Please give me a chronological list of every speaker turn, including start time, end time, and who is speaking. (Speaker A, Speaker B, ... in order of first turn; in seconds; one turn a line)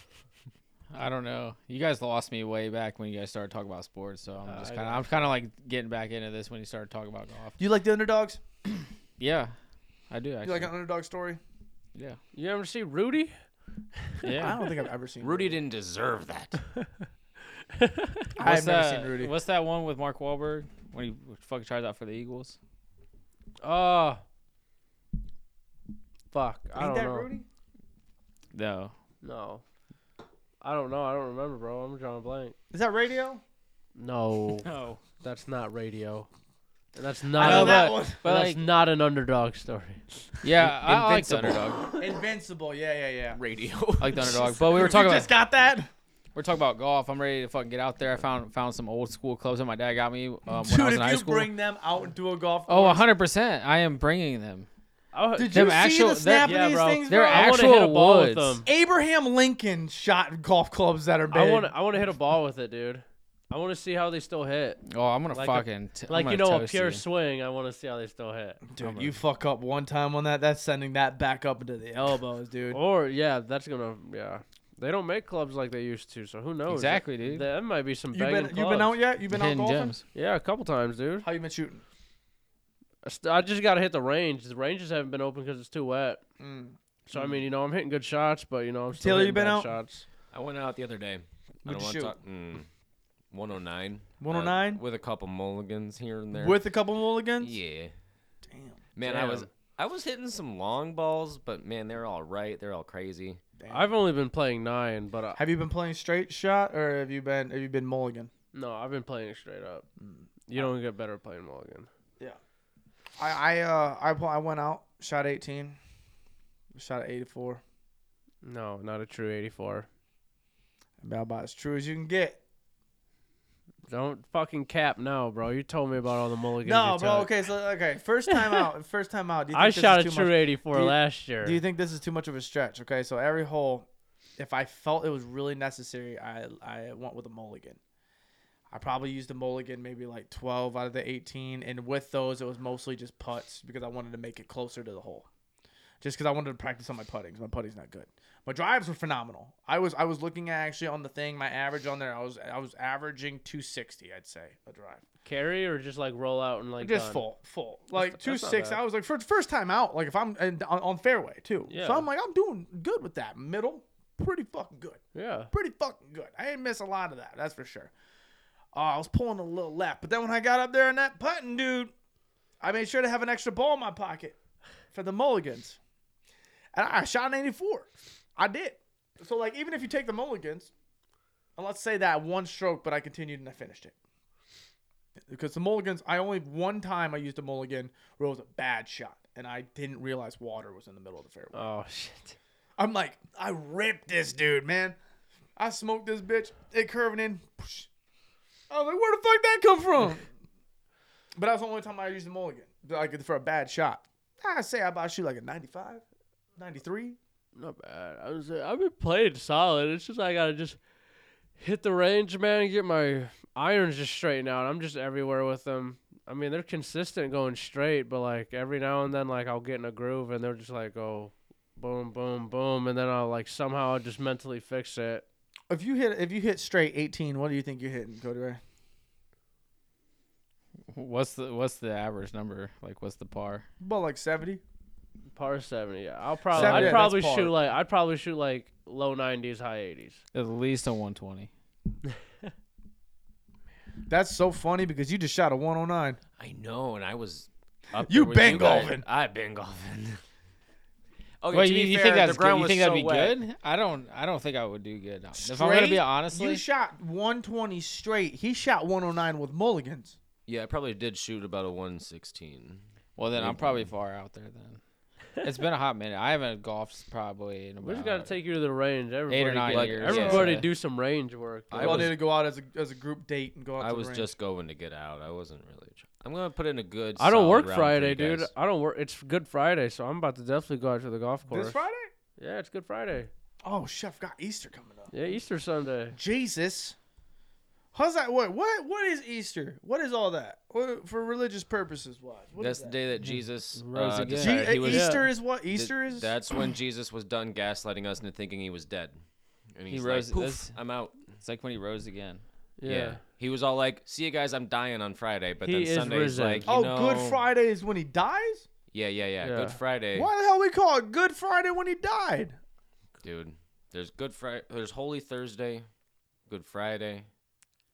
Speaker A: 0.9-7.6
Speaker B: 4.5-5.2
Speaker C: 7.6-8.4
Speaker A: 9.2-9.6
Speaker A: 10.1-10.7
Speaker C: 10.4-11.4
Speaker B: 12.3-13.4
Speaker B: 14.0-14.3
Speaker A: 14.2-14.6
Speaker C: 14.4-15.6
Speaker D: 15.2-16.6
Speaker B: 17.8-18.2
Speaker C: 18.4-19.3
Speaker A: 18.4-22.6
Speaker B: 23.6-24.2
Speaker B: 26.3-27.3
Speaker C: 26.8-27.5
Speaker A: 28.5-28.9
Speaker B: 29.2-29.6
Speaker B: 30.6-32.6
Speaker C: 32.7-33.4
Speaker B: 34.0-36.3
Speaker A: 34.6-35.0
Speaker B: 36.9-41.6
Speaker C: 37.3-38.2
Speaker A: 37.4-38.7
Speaker A: 40.4-41.8
Speaker C: 41.9-43.4
Speaker D: 43.4-44.5
Speaker A: 44.0-45.3
Speaker C: 44.2-45.9
Speaker A: 46.4-51.5
Speaker C: 50.5-53.1
Speaker A: 52.7-54.7
Speaker B: 55.1-55.9
Speaker C: 55.4-57.7
Speaker A: 55.5-58.6
Speaker B: 56.4-58.7
Speaker C: 58.6-61.7
Speaker B: 61.3-68.6
Speaker A: 64.9-67.0
Speaker C: 68.7-72.8
Speaker A: 68.8-69.2
Speaker B: 72.7-79.0
Speaker A: 76.7-77.5
Speaker C: 78.1-80.0
Speaker A: 79.3-80.0
Speaker B: 80.1-81.3
Speaker C: 81.2-81.8
Speaker B: 83.0-86.2
Speaker C: 86.4-87.4
Speaker B: 87.1-90.0
Speaker C: 88.9-89.8
Speaker D: 90.3-92.7
Speaker C: 91.7-92.2
Speaker D: 93.3-96.6
Speaker C: 94.2-94.8
Speaker C: 96.3-97.6
Speaker D: 97.4-97.9
Speaker C: 98.5-98.8
Speaker D: 99.0-103.4
Speaker B: 99.0-99.5
Speaker C: 103.6-103.9
Speaker B: 103.7-105.4
Speaker C: 105.3-108.3
Speaker B: 108.5-109.9
Speaker C: 110.0-110.7
Speaker B: 110.5-111.9
Speaker C: 113.2-115.8
Speaker C: 116.8-117.6
Speaker B: 118.4-119.9
Speaker C: 121.0-122.4
Speaker B: 123.9-127.3
Speaker C: 126.6-133.9
Speaker B: 129.5-131.6
Speaker C: 134.4-137.8
Speaker C: 138.7-145.3
Speaker C: 146.0-155.0
Speaker B: 155.2-157.2
Speaker C: 156.8-167.9
Speaker B: 157.9-158.8
Speaker B: 161.7-162.1
Speaker B: 165.1-165.5
Speaker C: 168.7-171.9
Speaker C: 172.6-174.4
Speaker C: 174.9-175.8
Speaker C: 176.7-180.7
Speaker C: 181.6-183.9
Speaker C: 185.3-191.7
Speaker B: 191.5-192.4
Speaker C: 192.8-195.0
Speaker C: 195.6-197.9
Speaker C: 198.7-200.3
Speaker C: 201.4-206.0
Speaker C: 206.6-207.2
Speaker B: 207.6-210.8
Speaker B: 211.6-225.2
Speaker C: 225.7-228.6
Speaker A: 230.9-233.7
Speaker C: 233.8-234.6
Speaker B: 235.3-240.2
Speaker C: 236.5-237.6
Speaker A: 236.5-237.0
Speaker A: 240.3-241.5
Speaker C: 244.1-246.2
Speaker D: 246.4-250.2
Speaker C: 248.0-249.1
Speaker D: 251.4-253.4
Speaker A: 251.5-256.6
Speaker C: 255.3-260.2
Speaker D: 260.5-263.9
Speaker A: 263.2-264.8
Speaker A: 265.4-268.4
Speaker B: 267.8-272.1
Speaker A: 269.3-270.7
Speaker D: 269.7-270.6
Speaker D: 271.7-272.2
Speaker C: 271.8-274.3
Speaker D: 273.8-278.5
Speaker B: 277.2-281.8
Speaker C: 281.5-282.1
Speaker B: 282.4-283.3
Speaker C: 283.6-285.1
Speaker B: 285.1-286.2
Speaker C: 286.1-287.0
Speaker C: 287.9-293.0
Speaker D: 292.6-299.2
Speaker B: 293.8-295.3
Speaker A: 293.9-294.8
Speaker C: 294.4-296.3
Speaker D: 299.7-301.4
Speaker A: 299.9-302.4
Speaker B: 302.8-303.2
Speaker D: 302.9-307.4
Speaker B: 305.6-306.7
Speaker C: 306.7-308.7
Speaker D: 308.9-310.3
Speaker B: 309.4-309.8
Speaker C: 310.1-312.6
Speaker D: 313.2-315.9
Speaker D: 316.5-317.3